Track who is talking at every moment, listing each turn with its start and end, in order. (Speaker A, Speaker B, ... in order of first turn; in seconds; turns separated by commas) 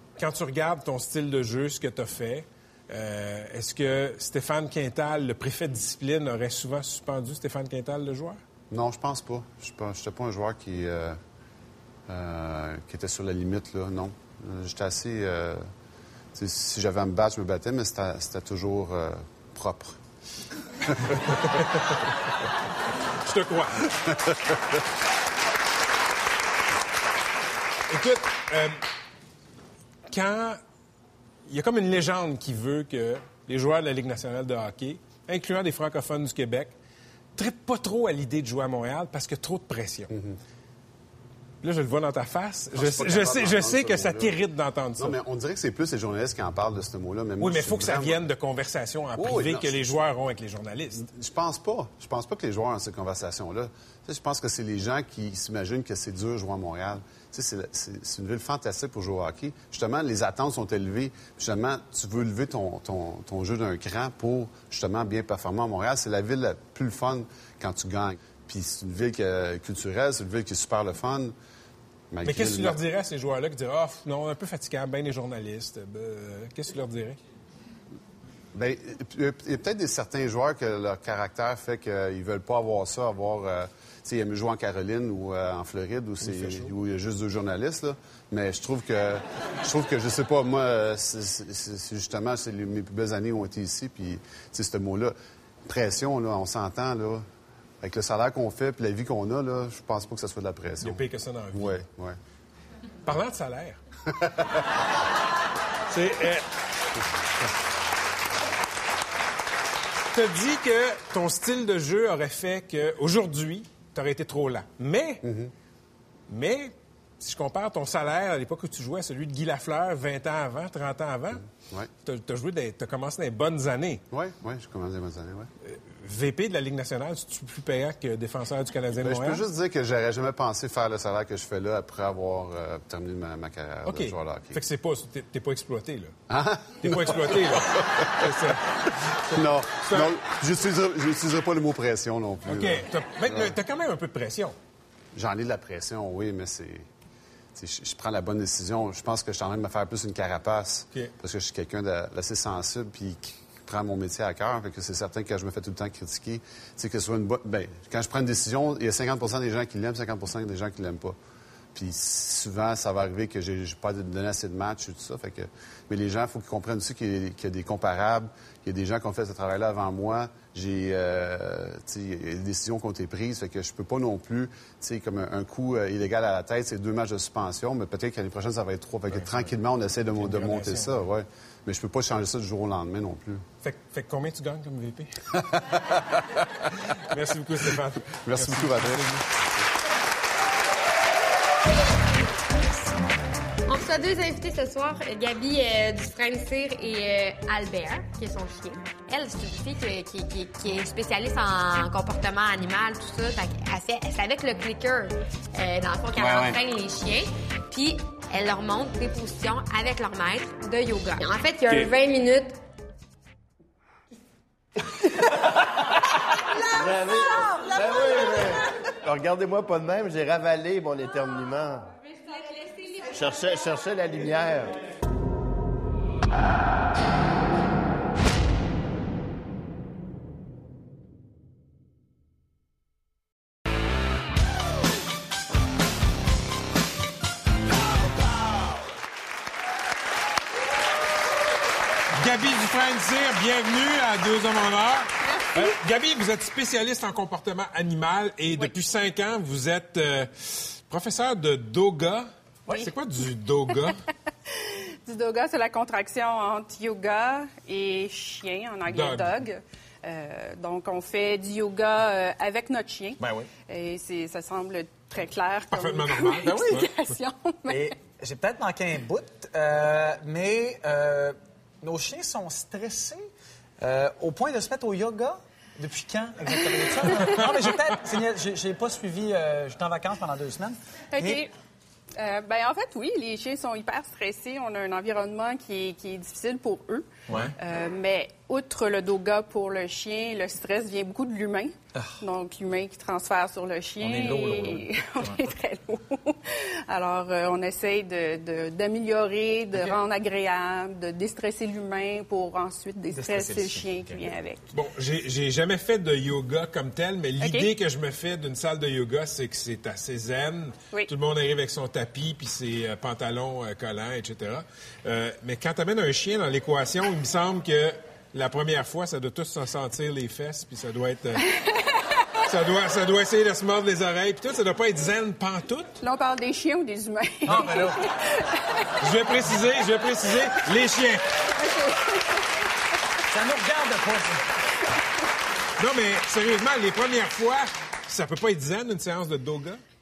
Speaker A: 0.2-8.4, Speaker B: 8.7-11.2, Speaker B: 12.1-15.6, Speaker B: 16.3-20.0, Speaker A: 21.3-22.0, Speaker A: 23.2-23.9, Speaker A: 27.9-28.8, Speaker A: 30.1-30.6, Speaker A: 31.5-36.7, Speaker A: 37.4-40.1, Speaker B: 40.1-40.4, Speaker A: 41.6-45.2, Speaker B: 42.7-44.4, Speaker B: 45.0-48.2, Speaker A: 47.4-51.1, Speaker B: 49.1-50.0, Speaker B: 51.1-71.3, Speaker B: 72.1-72.8, Speaker A: 72.2-77.2, Speaker B: 78.5-95.1, Speaker A: 86.2-86.7, Speaker B: 95.7-97.2, Speaker B: 97.8-102.2, Speaker A: 100.8-101.8, Speaker A: 103.0-103.8, Speaker A: 105.9-106.4, Speaker A: 110.1-115.2, Speaker B: 115.2-115.5, Speaker A: 116.3-121.4, Speaker A: 122.0-124.0, Speaker B: 124.1-125.5, Speaker A: 125.6-129.4, Speaker B: 128.9-134.6, Speaker A: 133.8-136.1, Speaker B: 136.3-138.6, Speaker A: 136.8-138.6, Speaker B: 139.3-143.6, Speaker A: 139.3-140.2, Speaker A: 142.4-144.6, Speaker B: 145.1-146.9, Speaker B: 147.5-161.2, Speaker B: 161.7-183.4, Speaker A: 179.1-179.5, Speaker A: 180.2-181.0, Speaker A: 183.6-185.2, Speaker A: 187.1-189.2, Speaker B: 188.2-189.6, Speaker C: 193.7-212.6, Speaker D: 216.8-221.9, Speaker D: 223.1-224.7, Speaker A: 242.1-254.0, Speaker E: 245.4-245.7, Speaker E: 254.5-267.9, Speaker A: 258.9-259.4, Speaker F: 263.2-263.5, Speaker A: 265.7-267.1, Speaker F: 267.7-273.2, Speaker F: 273.8-281.4, Speaker E: 281.1-281.5, Speaker E: 282.1-304.6, Speaker F: 287.3-287.5, Speaker F: 294.0-294.9, Speaker F: 303.1-304.3, Speaker A: 304.7-321.4, Speaker E: 307.4-307.7, Speaker E: 321.5-322.0, Speaker A: 322.5-326.0, Speaker E: 326.0-329.1, Speaker F: 327.4-328.1, Speaker A: 329.0-331.2, Speaker E: 329.8-330.5, Speaker E: 331.6-332.4, Speaker F: 333.3-334.4, Speaker A: 335.8-339.8